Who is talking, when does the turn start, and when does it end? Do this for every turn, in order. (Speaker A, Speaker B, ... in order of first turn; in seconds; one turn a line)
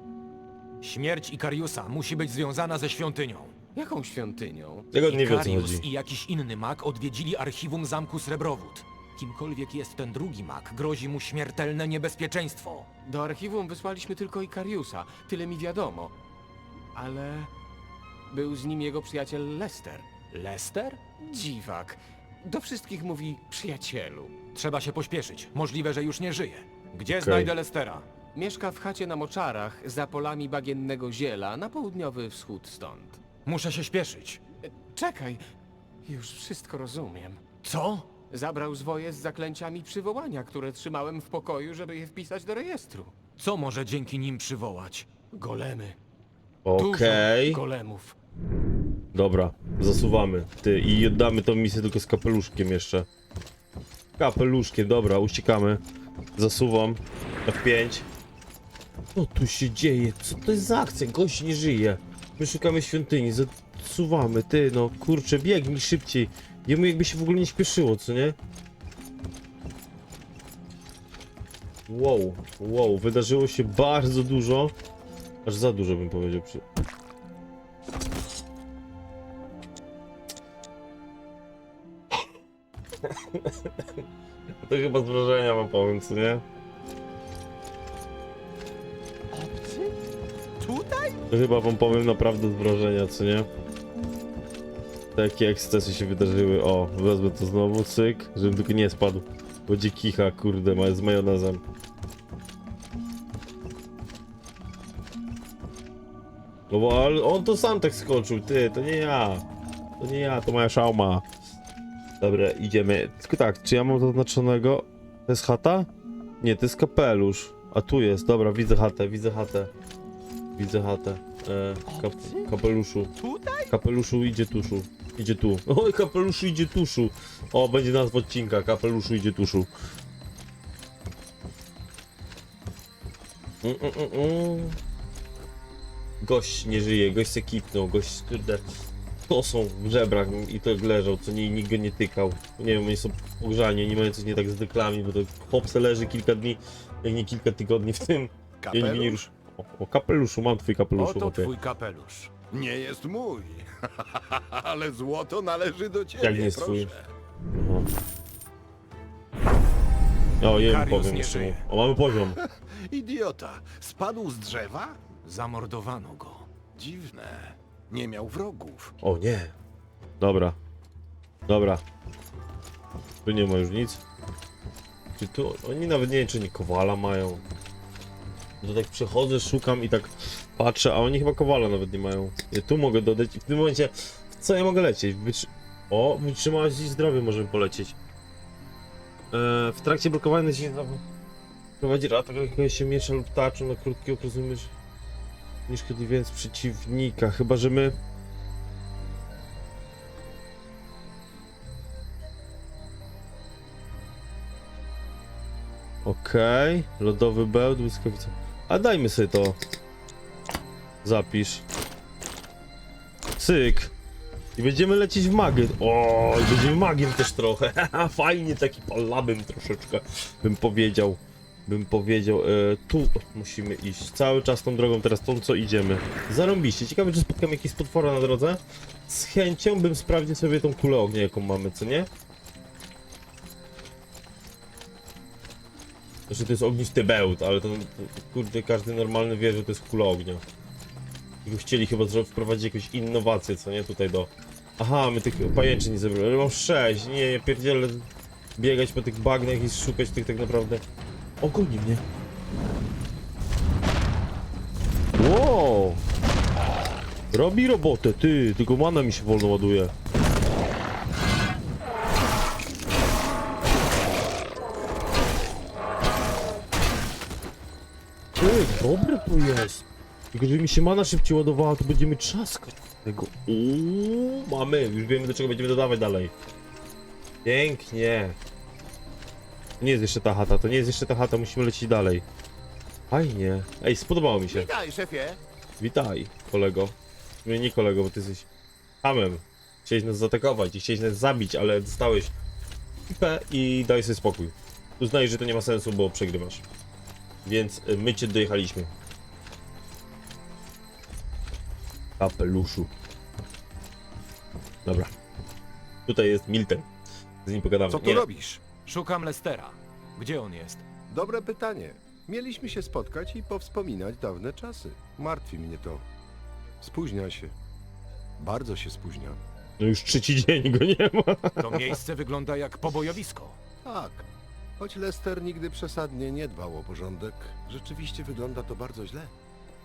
Speaker A: 0.8-3.5
Speaker B: 3.8-4.9
Speaker C: 4.9-5.9
Speaker A: 5.1-12.9
Speaker B: 13.1-16.2
Speaker B: 16.9-17.5
Speaker B: 18.3-20.3
Speaker A: 20.3-21.0
Speaker B: 21.1-24.4
Speaker A: 24.5-28.1
Speaker C: 27.1-27.5
Speaker B: 28.3-33.2
Speaker A: 33.5-34.4
Speaker B: 34.9-35.4
Speaker B: 36.0-43.2
Speaker A: 43.4-45.1
Speaker B: 45.3-46.0
Speaker C: 46.6-47.6
Speaker B: 46.8-48.2
Speaker C: 49.1-53.1
Speaker C: 54.2-55.8
Speaker C: 56.4-58.1
Speaker C: 59.1-68.4
Speaker C: 71.9-74.7
Speaker C: 75.5-76.6
Speaker C: 83.0-84.0
Speaker C: 84.6-86.4
Speaker B: 89.3-89.9
Speaker B: 90.6-91.2
Speaker C: 91.3-93.5
Speaker C: 95.2-101.6
Speaker C: 106.7-109.4
Speaker C: 110.0-111.3
Speaker C: 112.2-115.9
Speaker C: 116.4-119.7
Speaker C: 120.6-123.1
Speaker B: 121.9-122.5
Speaker B: 123.2-123.8
Speaker C: 123.7-129.7
Speaker C: 133.6-134.8
Speaker C: 136.2-138.6
Speaker C: 139.3-151.5
Speaker D: 148.6-149.3
Speaker A: 151.0-152.3
Speaker D: 152.5-157.1
Speaker C: 156.2-156.9
Speaker C: 157.6-157.9
Speaker C: 160.4-162.4
Speaker A: 160.4-161.6
Speaker D: 162.3-165.0
Speaker A: 165.2-166.5
Speaker D: 166.7-168.9
Speaker C: 169.0-169.5
Speaker C: 170.2-170.6
Speaker C: 171.5-171.8
Speaker C: 173.2-174.0
Speaker C: 175.2-177.4
Speaker C: 178.6-188.0
Speaker C: 189.3-191.0
Speaker C: 191.8-194.7
Speaker C: 195.7-198.0
Speaker C: 206.0-209.6
Speaker C: 211.0-211.6
Speaker C: 213.4-213.9
Speaker C: 214.6-232.1
Speaker C: 236.3-240.4
Speaker C: 241.4-250.8
Speaker C: 251.4-252.0
Speaker C: 255.2-256.0
Speaker C: 257.3-259.9
Speaker C: 268.4-276.3
Speaker C: 277.4-278.4
Speaker C: 279.8-282.2
Speaker C: 283.1-284.7
Speaker D: 284.5-285.4
Speaker C: 285.8-288.5
Speaker C: 289.0-292.3
Speaker C: 293.1-296.6
Speaker C: 297.4-298.9
Speaker C: 302.2-303.0
Speaker C: 304.9-305.1
Speaker C: 306.1-306.9
Speaker C: 307.4-308.3
Speaker D: 307.9-308.6
Speaker A: 308.8-310.9
Speaker D: 311.1-316.1
Speaker D: 316.8-317.6
Speaker D: 318.4-319.4
Speaker C: 319.8-322.0
Speaker A: 321.6-323.6
Speaker D: 323.8-324.3
Speaker D: 324.8-329.3